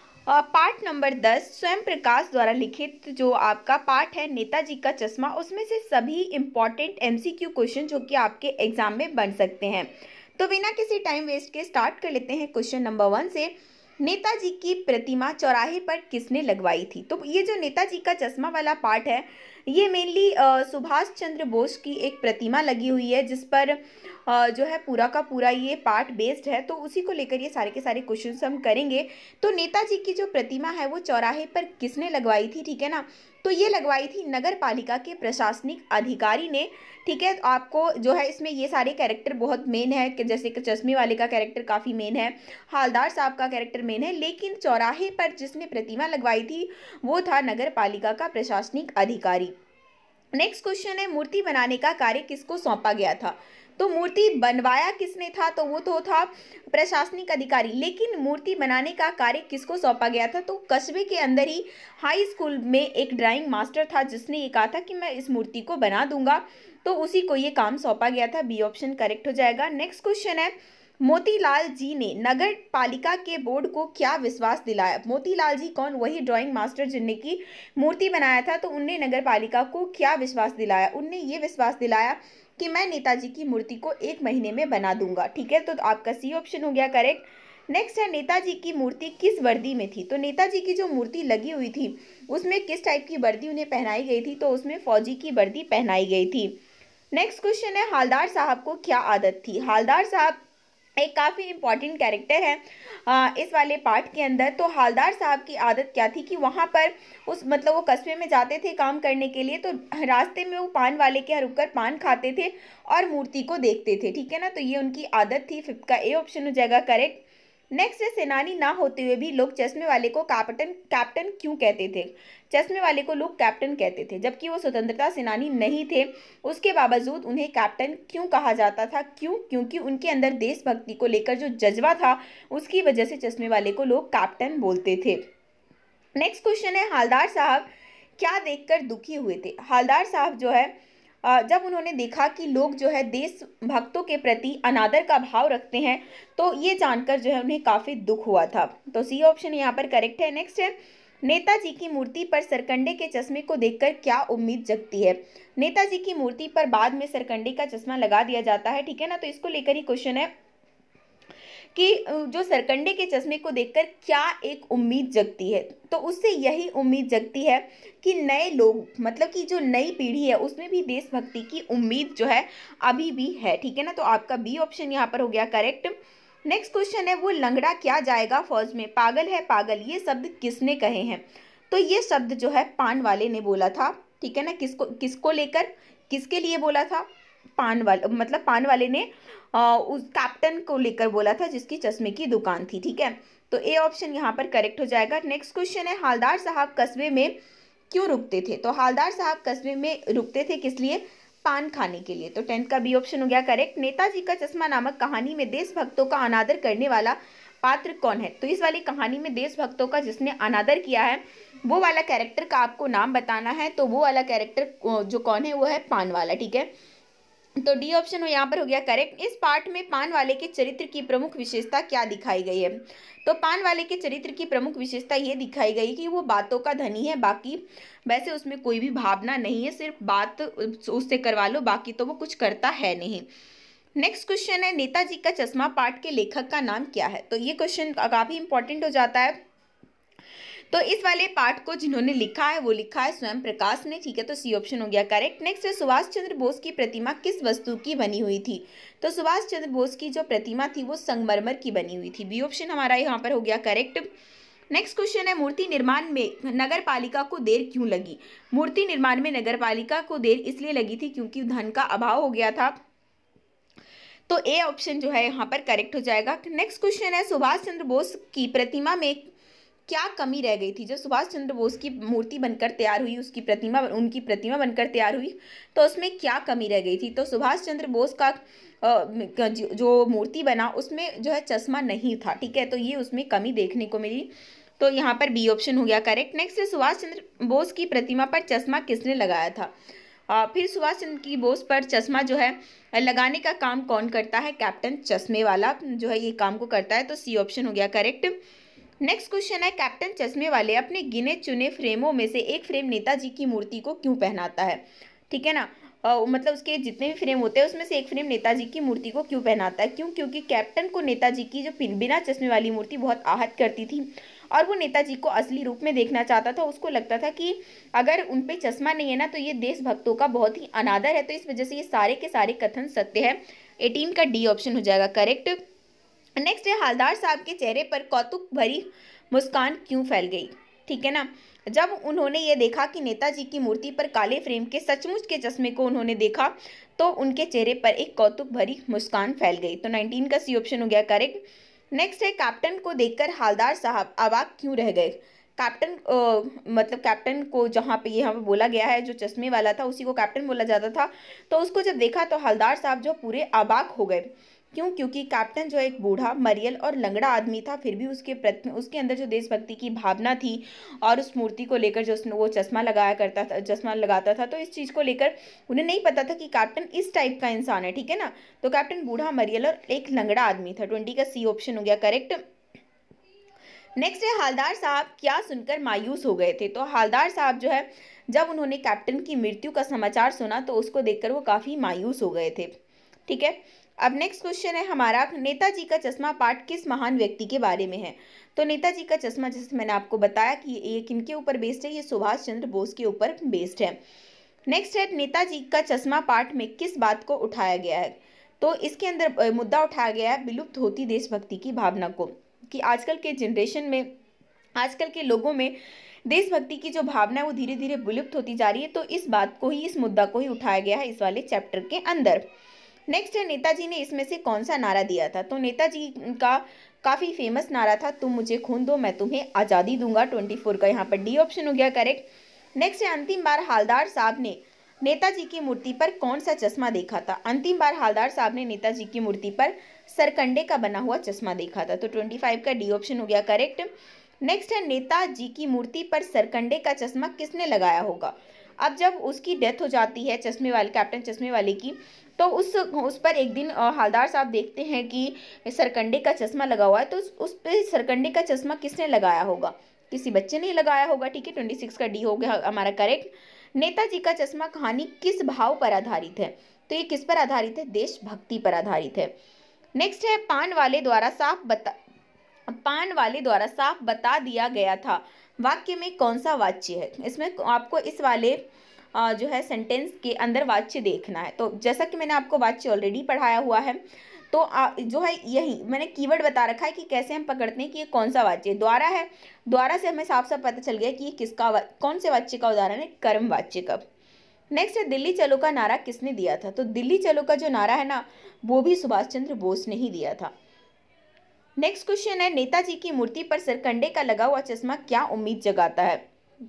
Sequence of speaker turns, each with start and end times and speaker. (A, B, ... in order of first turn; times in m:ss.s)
0:00.3-0:49.5 A
0:50.3-1:36.5 A
1:37.1-1:40.4 A
1:41.0-2:15.2 A
2:16.2-2:17.7 A
2:18.2-2:20.7 A
2:21.2-2:40.3 A
2:41.7-2:55.9 A
2:56.4-3:07.1 A
3:07.6-3:17.3 A
3:17.9-3:36.7 A
3:37.6-3:53.2 A
3:54.0-3:59.4 A
4:00.7-4:14.1 A
4:14.7-4:22.8 A
4:24.3-4:29.3 A
4:29.9-4:44.3 A
4:44.8-4:49.7 A
4:50.3-4:58.3 A
4:59.0-5:25.6 A
5:26.4-5:41.4 A
5:41.9-6:12.4 A
6:14.0-6:22.7 A
6:23.3-6:34.0 A
6:34.7-6:44.1 A
6:44.8-6:45.7 A
6:46.3-6:52.4 A
6:53.1-7:02.2 A
7:02.8-7:13.9 A
7:14.4-7:39.3 A
7:40.0-7:41.9 A
7:42.7-7:48.6 A
7:49.1-8:04.0 A
8:04.7-8:10.5 A
8:11.8-8:16.2 A